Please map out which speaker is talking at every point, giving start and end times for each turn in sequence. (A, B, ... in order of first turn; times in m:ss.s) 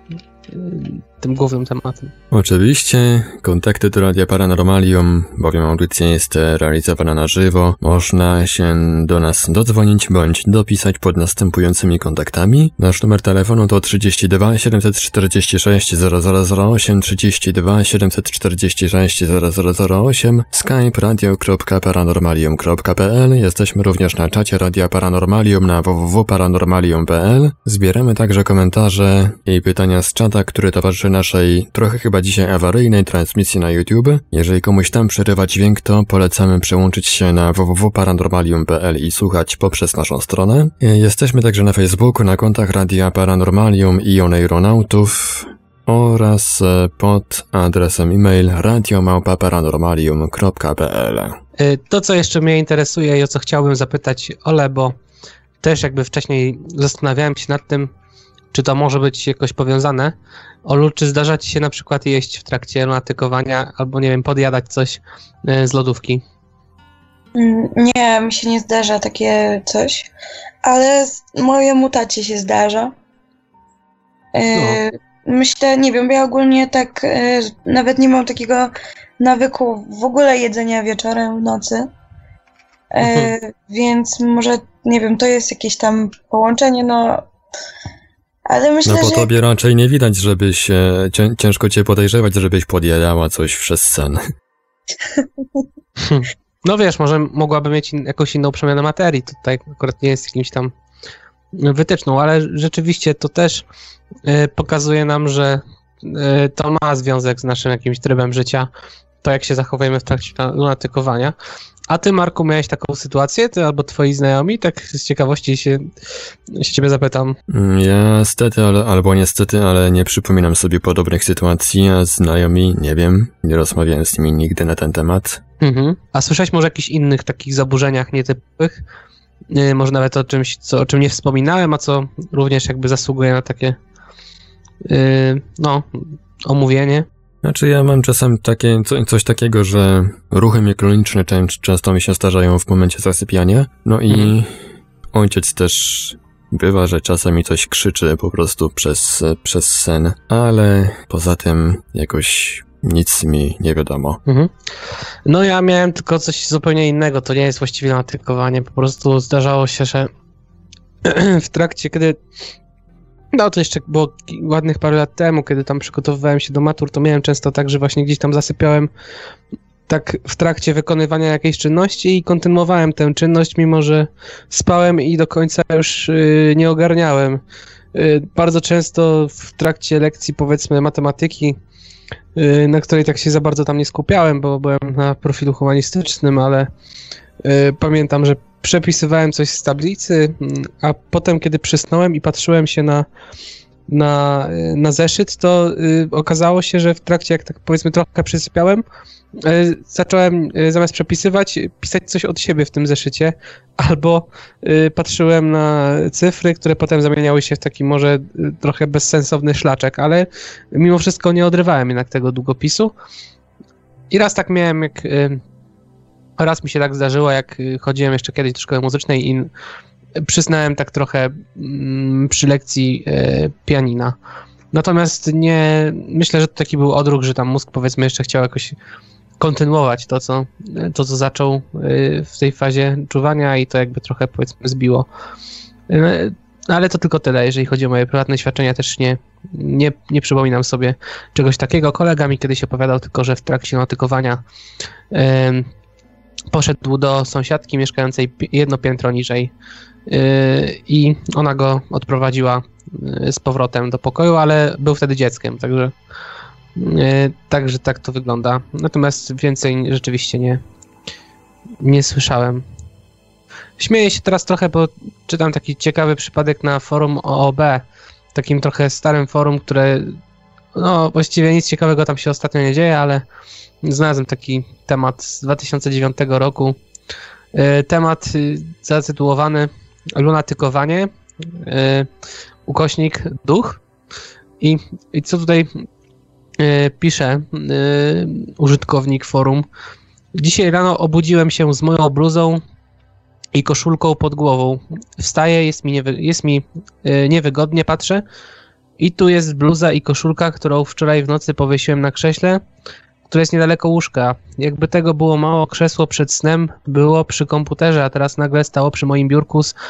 0:00.5-0:02.1 A
0:02.3-0:51.4 B
0:51.6-0:54.9 A
0:55.6-0:57.9 A
0:58.5-1:06.2 A
1:07.3-1:10.1 C
1:10.6-1:12.9 C
1:14.3-1:21.9 C
1:14.5-1:14.8 A
1:22.9-1:27.2 C
1:23.0-1:23.3 A
1:28.4-1:29.3 C
1:28.8-1:34.2 B
1:36.0-1:40.7 A
1:41.5-1:43.6 A
1:44.2-1:48.7 A
1:49.2-1:51.3 A
1:51.9-1:55.9 A
1:56.5-1:57.4 A
1:57.5-2:05.4 B
2:05.6-2:08.8 A
2:09.5-2:13.8 A
2:14.8-2:17.1 A
2:17.4-2:34.2 B
2:34.2-2:34.5 A
2:35.2-2:40.1 A
2:41.0-2:42.2 A
2:43.3-2:48.9 A
2:49.9-2:57.4 A
2:57.9-3:01.6 A
3:02.4-3:06.7 A
3:07.4-3:13.0 A
3:13.9-3:18.8 A
3:19.4-3:32.9 A
3:34.1-3:35.4 A
3:36.4-3:39.5 A
3:40.2-3:44.2 A
3:44.7-3:48.8 A
3:49.4-3:55.1 A
3:55.9-4:04.4 A
4:05.1-4:05.7 A
4:06.5-4:09.5 A
4:10.1-4:15.9 A
4:16.8-4:20.6 A
4:21.8-4:22.6 A
4:23.8-4:30.2 A
4:30.7-4:33.2 A
4:33.8-4:36.8 A
4:37.5-4:41.1 A
4:41.6-4:42.1 A
4:42.6-4:43.8 A
4:44.6-4:45.7 A
4:46.6-4:49.6 A
4:50.3-4:52.6 A
4:53.5-4:58.2 A
4:59.0-5:02.6 A
5:03.3-5:09.7 A